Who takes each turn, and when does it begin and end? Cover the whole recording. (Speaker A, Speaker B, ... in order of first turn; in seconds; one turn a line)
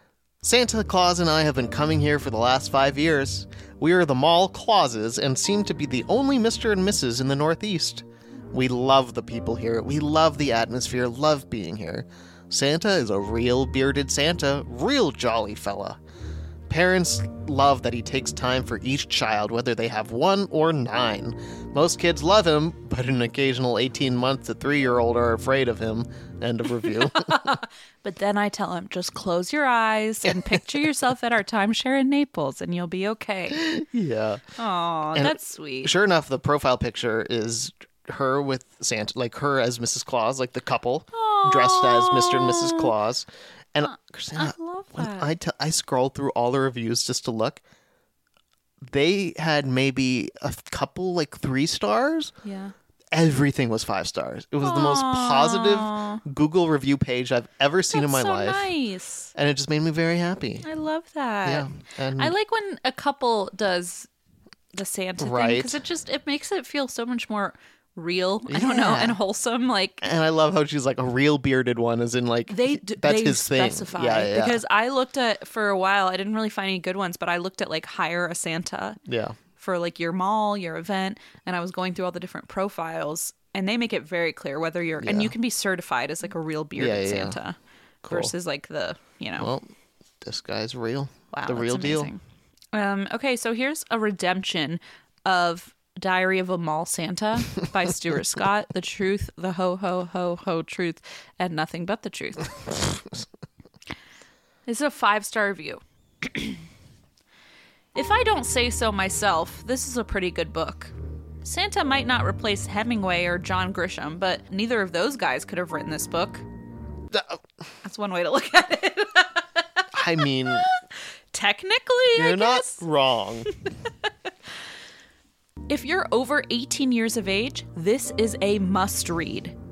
Speaker A: 0.4-16.0
Speaker A: 16.7-27.6
Speaker B: 26.8-33.7
Speaker A: 30.2-30.6
Speaker A: 33.5-34.4
Speaker B: 34.6-35.9
Speaker A: 35.1-47.6
Speaker B: 41.1-42.9
Speaker B: 43.8-45.3
Speaker A: 48.8-52.3
Speaker B: 52.4-52.7
Speaker A: 53.1-58.7
Speaker B: 54.6-56.2
Speaker B: 57.9-59.3
Speaker A: 59.4-60.7
Speaker B: 60.6-64.1
Speaker A: 61.5-62.3
Speaker B: 64.7-70.0
Speaker A: 65.2-65.8
Speaker A: 68.5-69.2
Speaker A: 70.0-74.6
Speaker B: 72.5-79.0
Speaker A: 79.1-79.4
Speaker B: 79.6-89.5
Speaker A: 85.0-85.3
Speaker A: 86.8-87.4
Speaker A: 88.0-88.3
Speaker A: 89.4-89.7
Speaker A: 90.2-92.1
Speaker B: 91.3-92.2
Speaker B: 92.7-102.5
Speaker B: 104.7-106.6
Speaker B: 108.0-116.5
Speaker A: 117.1-117.4
Speaker B: 117.8-119.8
Speaker A: 119.9-120.7
Speaker B: 121.3-122.8
Speaker A: 122.1-123.5
Speaker B: 125.7-129.6